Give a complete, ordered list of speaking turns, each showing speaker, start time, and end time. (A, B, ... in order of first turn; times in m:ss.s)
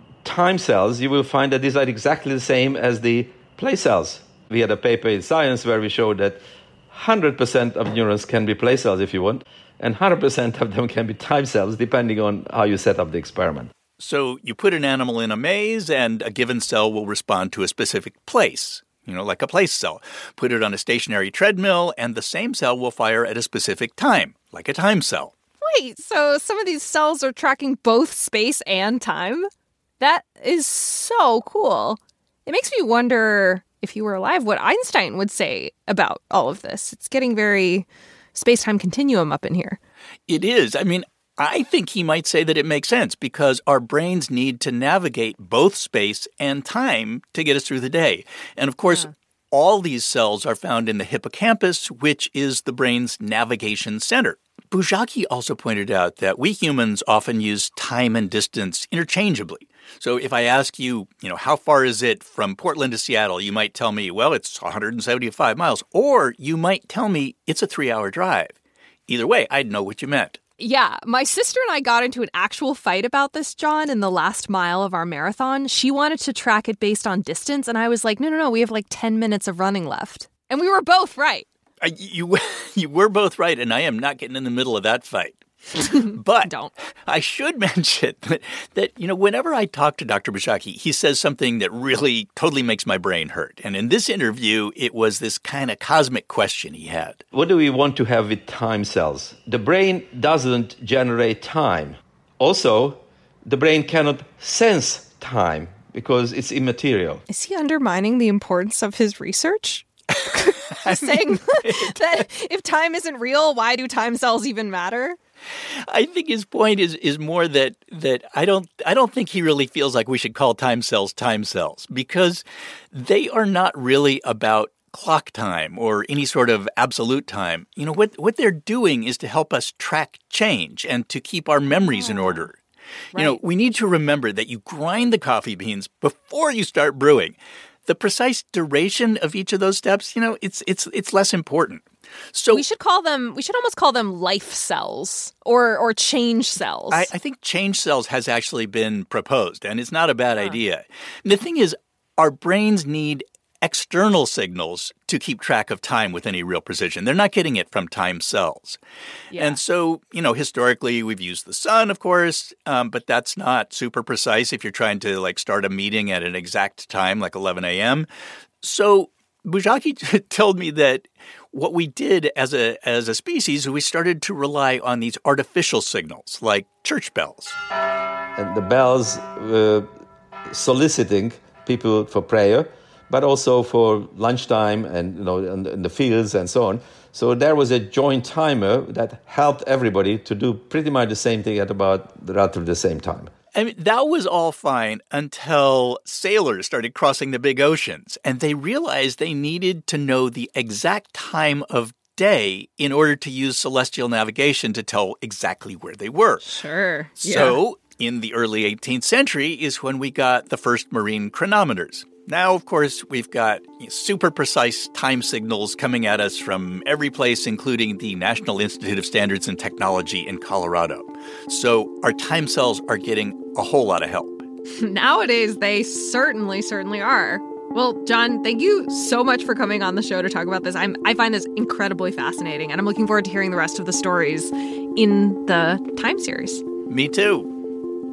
0:00.2-0:13.7 A
0:14.0-0:25.3 B
0:25.6-0:29.5 C
0:30.0-0:39.8 C
0:40.3-1:08.6 B
1:09.1-1:10.4 B
1:10.6-1:21.5 C
1:21.8-1:26.5 B
1:25.8-1:26.7 C
1:27.0-1:37.2 B
1:37.3-1:47.2 A
1:47.3-1:55.2 C
1:50.6-1:52.1 B
1:55.9-2:12.6 B
2:11.7-2:12.5 C
2:13.1-2:13.4 C
2:13.1-2:22.6 B
2:22.5-2:27.1 C
2:26.9-2:38.8 B
2:39.3-2:39.6 C
2:39.4-2:48.1 B
2:48.6-2:57.6 B
2:58.4-2:59.9 A
3:00.5-3:13.3 A
3:13.5-3:26.5 B
3:26.4-3:27.6 C
3:27.2-3:44.4 B
3:44.8-3:56.6 C
3:56.9-3:57.5 B